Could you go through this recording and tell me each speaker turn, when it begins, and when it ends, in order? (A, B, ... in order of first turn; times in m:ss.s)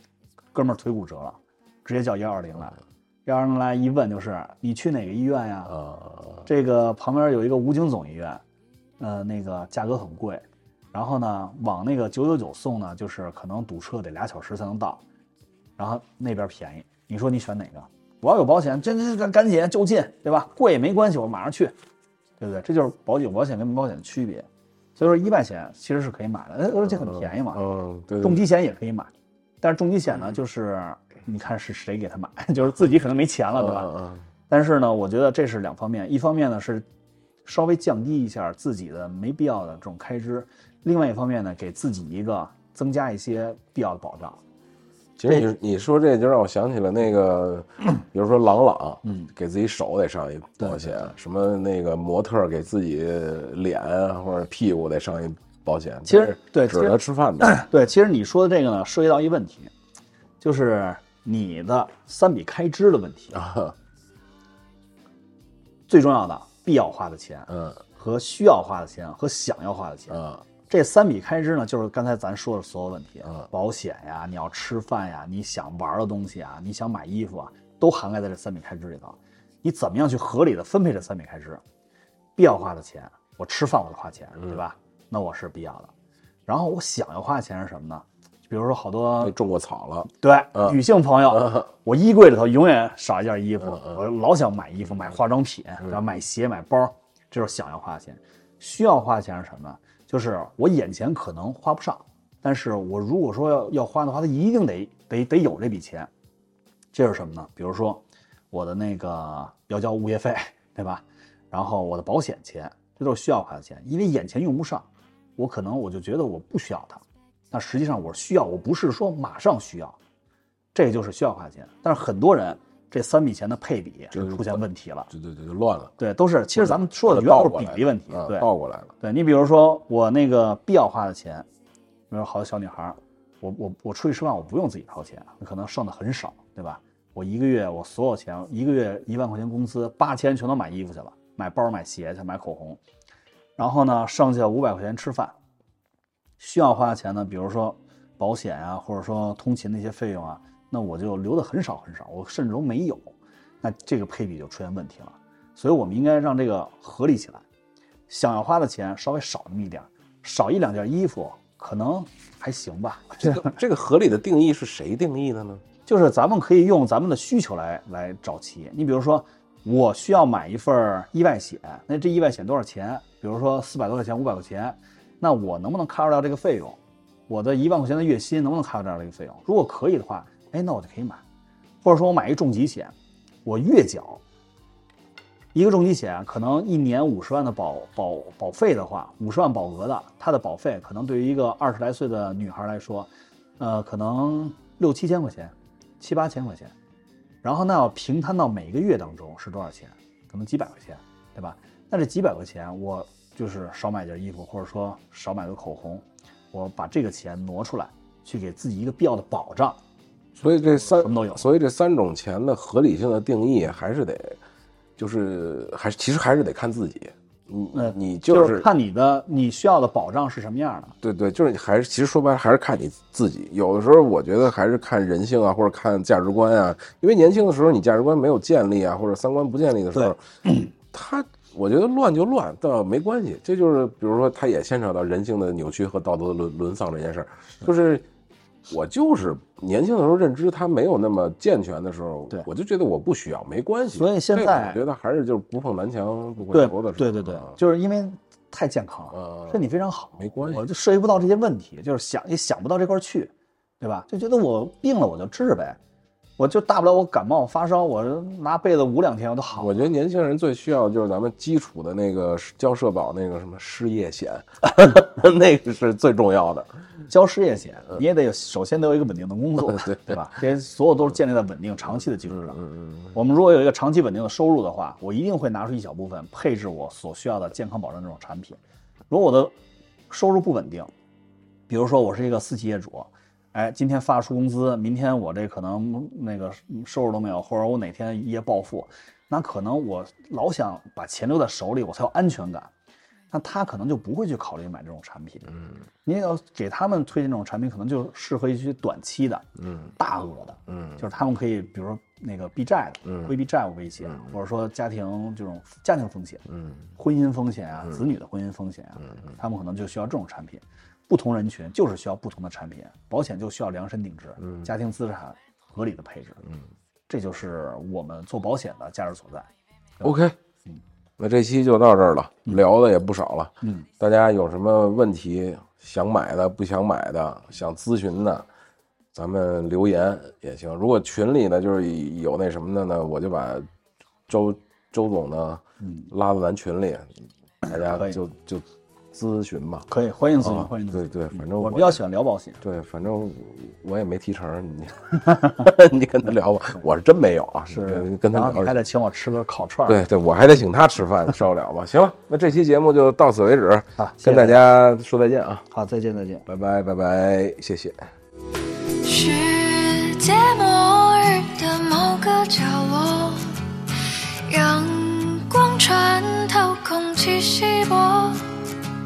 0:00.5-0:05.8 A
0:05.8-0:06.4 B
0:06.5-0:08.4 A
0:09.0-0:15.0 A
0:15.8-0:21.8 A
0:22.4-0:27.6 A
0:27.0-0:28.4 B
0:28.2-0:29.1 A
0:29.6-0:33.9 A
0:33.6-0:34.2 B
0:34.5-0:36.9 A
0:37.4-0:44.4 A
0:45.2-0:57.7 B
0:49.0-0:49.3 A
0:50.6-0:50.8 A
0:56.1-0:59.7 A
1:00.4-1:03.4 A
1:03.3-1:03.8 B
1:05.9-1:21.6 A
1:07.5-1:07.8 B
1:10.1-1:10.4 B
1:22.4-1:25.9 A
1:26.5-1:29.4 A
1:29.2-1:30.8 B
1:30.1-1:46.1 A
1:31.3-1:31.7 B
1:46.9-2:00.0 A
2:00.7-2:05.1 A
2:04.1-2:04.6 B
2:05.1-2:05.9 B
2:06.0-2:08.5 A
2:06.6-2:08.9 B
2:09.0-2:11.5 A
2:12.1-2:22.8 A
2:23.6-2:25.4 A
2:26.4-2:37.4 A
2:38.1-2:43.6 A
2:43.2-2:45.6 B
2:45.9-3:01.2 A
3:01.8-3:02.9 A
3:03.4-3:04.2 A
3:05.5-3:16.7 A
3:17.4-3:29.8 A
3:30.4-3:34.4 B
3:30.9-3:31.5 A
3:35.0-3:38.7 B
3:37.7-3:40.9 A
3:41.0-3:50.2 B
3:50.0-3:50.7 A
3:50.9-3:58.1 B
3:58.7-4:07.6 B
4:03.9-4:04.8 A
4:06.5-4:15.8 A
4:09.1-4:09.6 B
4:10.2-4:10.6 B
4:16.4-4:19.7 A
4:19.6-4:26.8 B
4:27.1-4:32.6 A
4:29.7-4:30.2 B
4:32.3-4:33.1 B
4:33.1-4:39.6 A
4:40.1-4:40.9 A
4:41.7-4:52.7 A
4:53.3-4:55.5 A
4:55.5-4:55.8 B
4:56.0-5:06.4 A
5:00.7-5:01.0 B
5:06.5-5:06.8 B
5:07.0-5:16.5 A
5:17.1-5:19.5 A
5:20.0-5:20.4 B
5:21.2-5:28.5 B
5:23.6-5:23.9 A
5:29.1-5:33.7 B
5:34.3-5:39.9 B
5:35.8-5:36.1 A
5:37.8-5:38.2 A
5:39.9-5:42.6 A
5:40.4-5:42.0 B
5:42.6-5:48.8 B
5:47.7-5:50.0 A
5:49.9-5:55.7 B
5:54.0-5:54.6 A
5:55.7-5:56.4 A
5:56.5-5:58.1 B
5:59.0-6:03.5 C
6:04.5-6:08.5 C